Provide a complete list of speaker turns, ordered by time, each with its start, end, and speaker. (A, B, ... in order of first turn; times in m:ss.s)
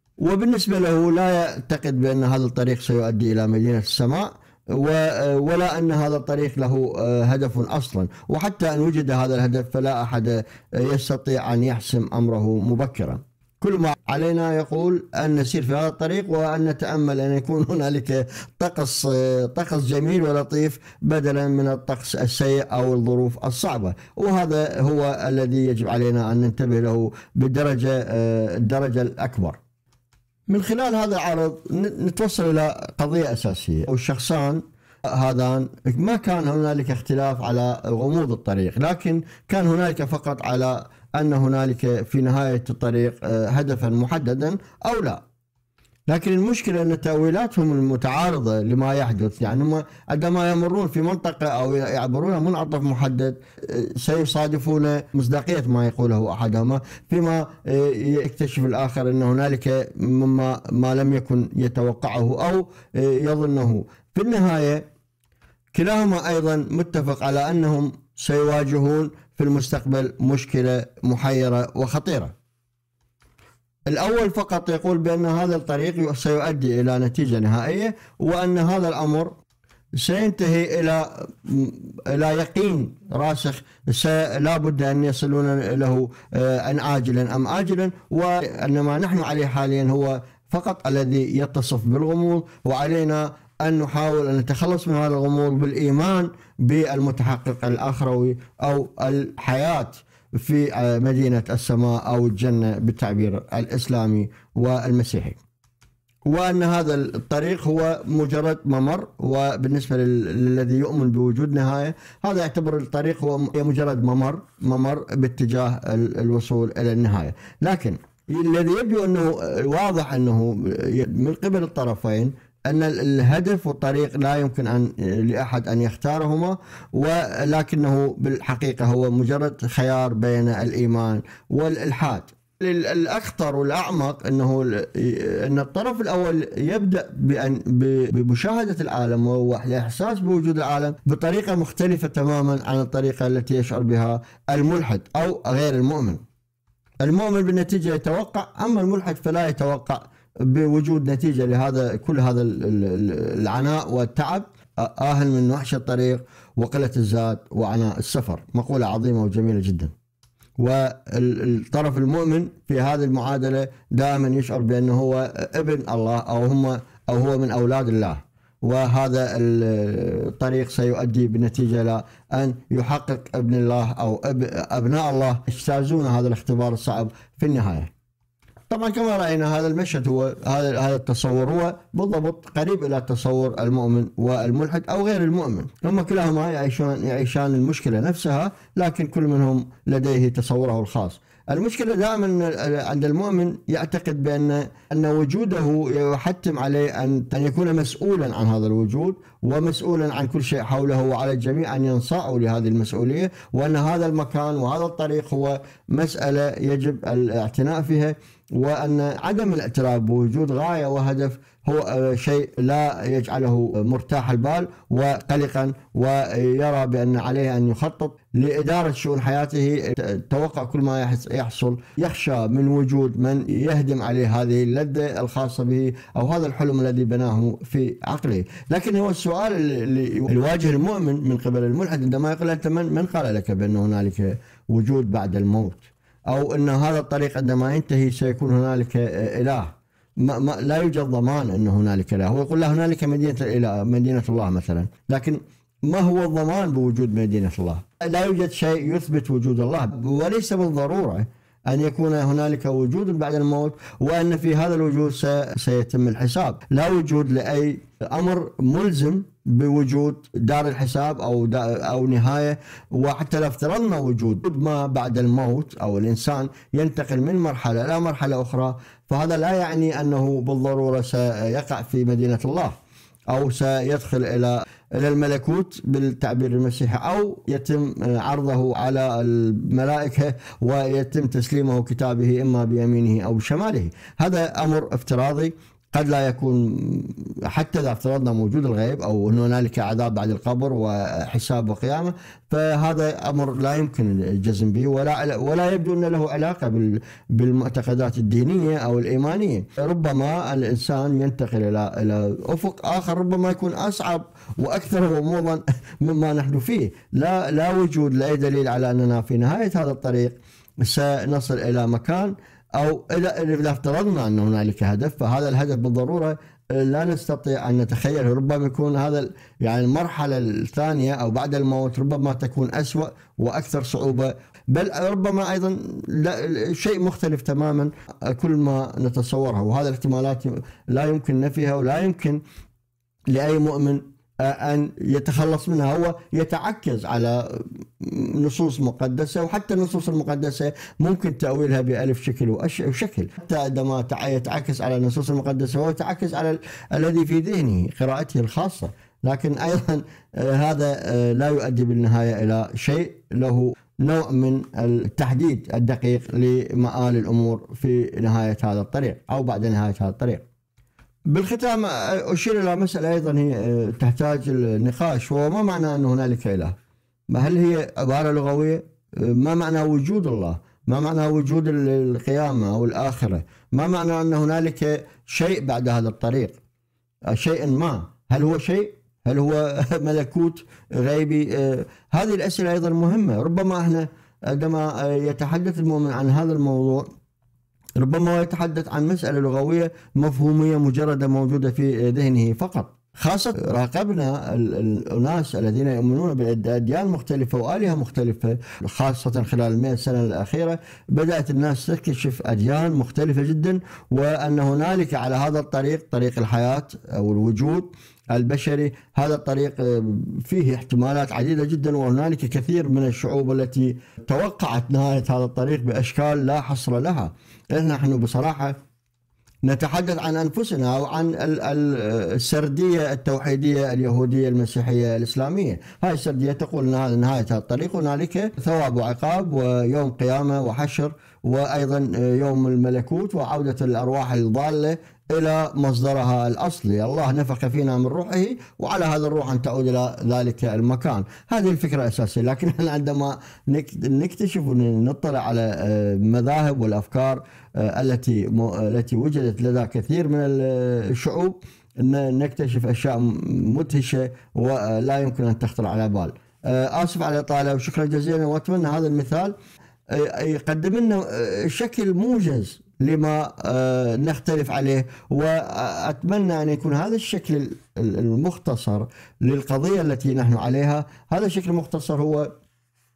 0:00.2-0:29.6 A
0:30.5-0:45.2 A
0:46.1-1:04.8 A
1:05.7-1:12.3 A
1:13.9-1:19.3 A
1:20.0-1:45.4 A
1:46.2-2:26.2 A
2:27.0-2:39.9 A
2:40.6-2:57.9 A
2:58.7-4:32.7 A
4:33.3-5:32.4 A
5:33.3-6:00.4 A
6:01.3-6:06.7 A
6:07.3-6:16.6 A
6:17.3-6:27.1 A
6:28.0-6:58.8 A
6:59.6-7:39.5 A
7:40.1-7:52.5 A